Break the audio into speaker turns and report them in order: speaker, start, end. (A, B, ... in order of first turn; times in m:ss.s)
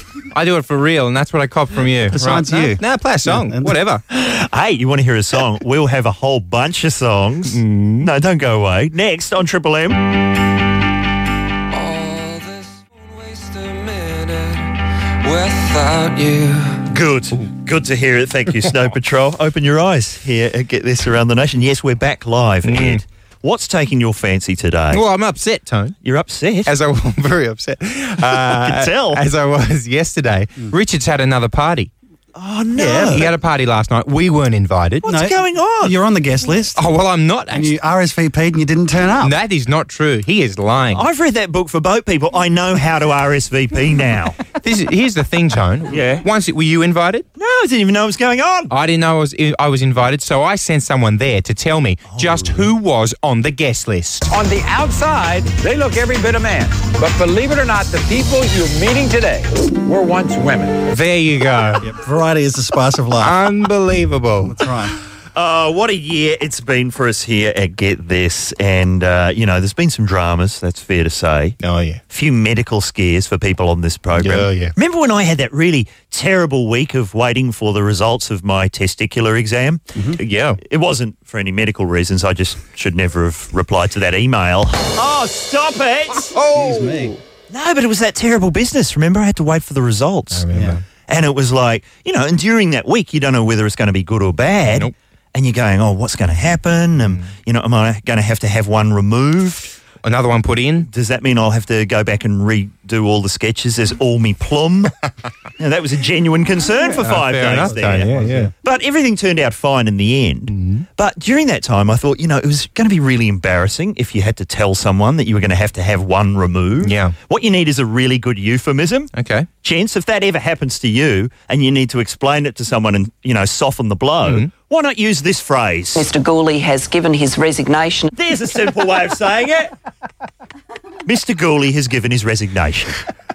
0:00.3-0:04.0 A
0:02.1-0:03.8 B
0:04.1-0:10.0 C
0:07.5-0:08.1 A
0:16.9-0:25.0 C
0:22.6-0:23.0 A
0:24.9-0:26.0 A
0:26.0-0:26.7 C
0:26.6-0:31.9 A
0:28.3-0:29.2 C
0:32.4-0:33.3 C
0:32.8-0:33.3 B
0:33.0-0:35.1 A
0:35.0-0:36.8 B
0:35.1-0:35.9 C
0:36.8-0:37.7 A
0:37.5-0:39.3 B
0:39.2-0:41.0 A
0:40.9-0:44.4 C
0:44.6-0:47.2 A
0:45.9-0:46.2 C
0:47.4-0:48.7 C
0:48.7-0:54.2 A
0:52.1-0:52.7 C
0:54.3-1:00.8 D
1:00.9-1:01.8 A
1:01.8-1:03.3 B
1:03.2-1:04.6 A
1:04.4-1:05.0 B
1:05.3-1:11.6 C
1:11.6-1:12.0 A
1:12.1-1:19.8 C
1:14.2-1:14.7 A
1:20.2-1:20.6 A
1:20.6-1:26.3 C
1:26.4-1:27.1 A
1:26.5-1:27.1 B
1:27.5-1:30.4 C
1:30.3-1:30.8 A
1:30.5-1:30.8 B
1:31.0-1:39.8 C
1:40.0-1:40.9 A
1:40.9-1:44.9 C
1:45.6-1:59.1 C
1:47.0-1:48.5 A
1:47.6-1:48.5 B
1:50.5-1:50.8 A
1:56.8-1:57.1 A
1:59.1-1:59.5 A
1:59.6-2:06.1 C
2:04.2-2:04.5 A
2:05.9-2:08.1 E
2:08.1-2:09.7 C
2:11.0-2:13.0 C